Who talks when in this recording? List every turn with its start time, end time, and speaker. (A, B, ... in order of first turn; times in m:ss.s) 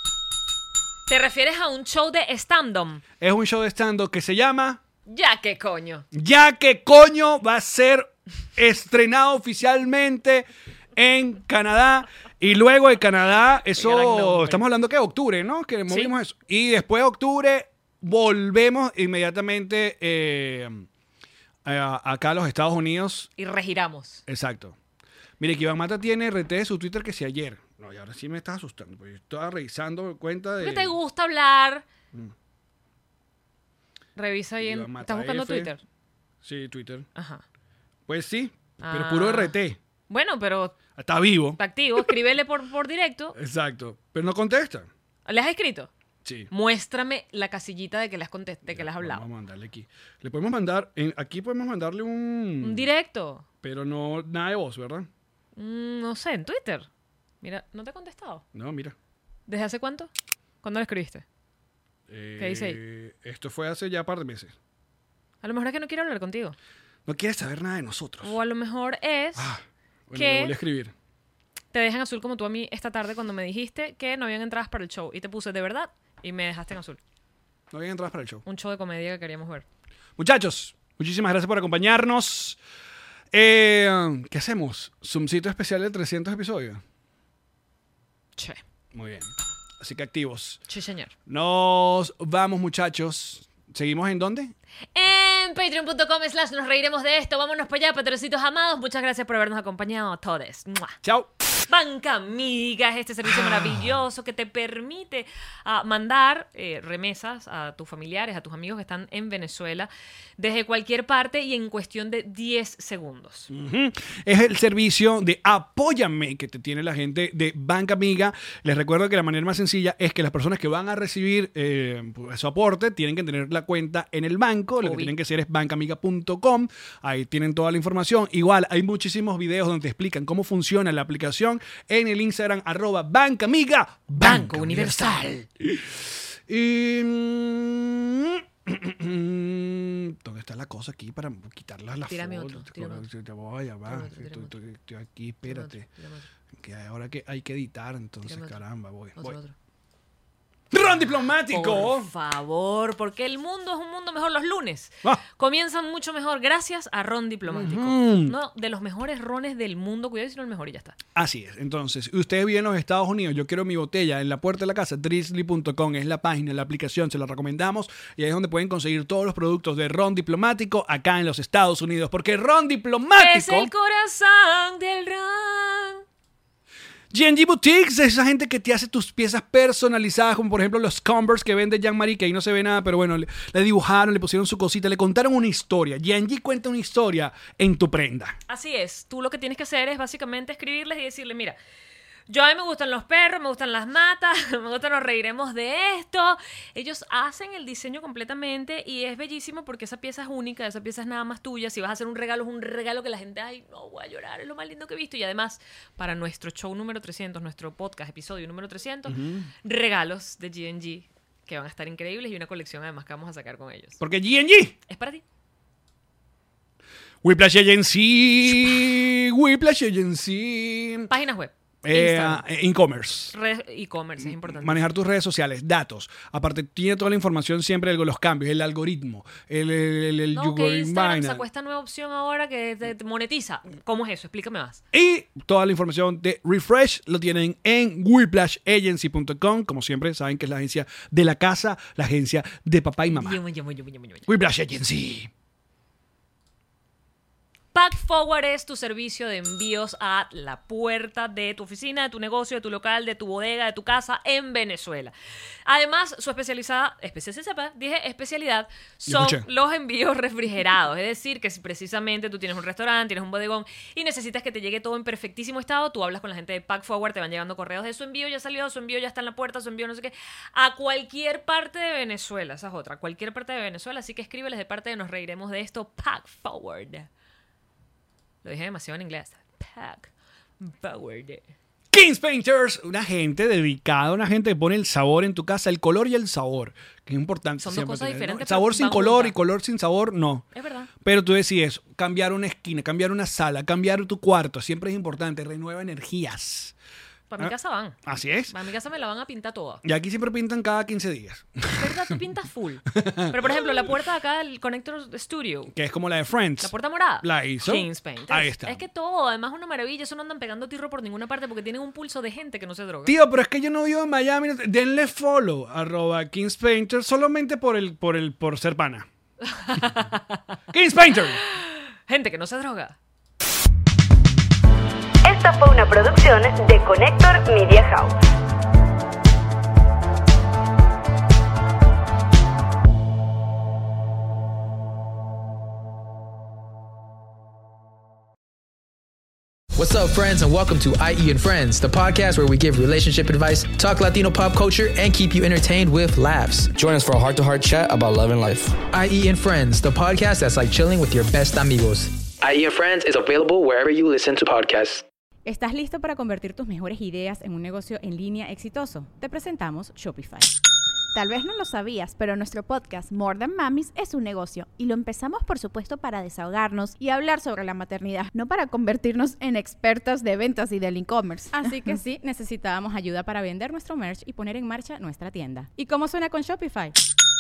0:01.1-0:03.0 A
0:03.2-0:04.8 B
0:05.1-0:06.1 A
0:06.1-0:20.9 B
0:13.7-0:14.6 A
0:21.6-0:23.3 B
0:23.4-0:24.2 A
0:24.3-0:24.8 B
0:25.4-0:31.0 B
0:30.6-0:31.9 A
0:34.2-0:35.8 A
0:34.6-0:35.7 B
0:36.4-0:37.1 B
0:37.2-0:37.4 A
0:38.1-0:39.8 B
0:38.8-0:39.6 A
0:40.1-0:40.8 A
0:41.0-0:42.1 B
0:41.6-0:43.4 A
0:43.4-0:44.9 B
0:45.3-0:45.9 A
0:46.2-0:46.5 B
0:46.5-0:49.2 A
0:48.7-0:52.9 B
0:52.6-0:53.5 A
0:53.6-0:55.1 B
0:55.6-0:56.9 A
0:57.4-0:58.4 A
0:58.5-0:59.0 B
0:59.5-1:00.1 A
1:00.6-1:01.2 A
1:02.1-1:04.5 B
1:02.4-1:02.8 A
1:05.4-1:06.6 A
1:07.1-1:08.4 B
1:08.2-1:09.5 A
1:09.4-1:10.9 B
1:10.2-1:10.5 A
1:11.7-1:17.0 A
1:17.7-1:18.4 B
1:18.5-1:19.6 A
1:20.2-1:22.6 B
1:23.3-1:26.8 B
1:28.9-1:30.6 B
1:30.7-1:31.1 A
1:31.3-1:34.5 B
1:35.0-1:41.0 A
1:41.0-1:41.3 B
1:41.6-1:53.5 A
1:43.2-1:44.0 B
1:53.5-2:25.9 B
2:04.8-2:05.1 A
2:14.2-2:15.4 A
2:22.1-2:23.1 A
2:23.9-2:24.5 A
2:25.5-2:26.3 A
2:26.6-2:29.4 B
2:28.2-2:28.6 A
2:29.2-2:29.5 A
2:30.7-2:32.1 B
2:31.4-2:41.0 A
2:37.5-2:38.4 B
2:41.2-2:53.7 B
2:53.2-2:56.0 A
2:57.1-3:08.4 B
3:08.5-3:11.6 A
3:12.3-3:34.0 A
3:29.1-3:29.5 B
3:34.0-3:34.8 B
3:34.9-3:35.2 A
3:37.2-3:41.1 B
3:41.1-3:42.4 A
3:41.8-3:43.4 B
3:43.3-3:44.9 A
3:44.2-3:51.4 B
3:50.3-3:54.8 A
3:54.9-4:03.4 B
4:03.1-4:04.3 A
4:04.3-4:05.3 B
4:07.7-4:15.1 A
4:15.7-4:37.1 A
4:19.1-4:19.5 B
4:38.4-4:41.4 A
4:41.9-4:50.4 B
4:47.6-4:49.4 A
4:50.5-4:50.9 A
4:51.0-4:56.7 B
4:57.3-4:59.8 A
4:58.0-4:58.5 B
4:59.8-5:02.2 B
5:01.7-5:05.7 A
5:02.9-5:03.9 B
5:05.7-5:08.8 B
5:06.6-5:13.2 A
5:13.1-5:19.1 B
5:19.5-5:20.4 A
5:20.7-5:21.4 B
5:21.5-5:23.0 A
5:25.2-5:28.2 C
5:39.8-5:46.8 D
5:46.8-5:48.6 E
5:48.8-5:52.3 D
5:52.6-5:54.4 E
5:55.5-6:00.5 F
6:01.1-6:11.9 G
6:11.5-6:16.9 F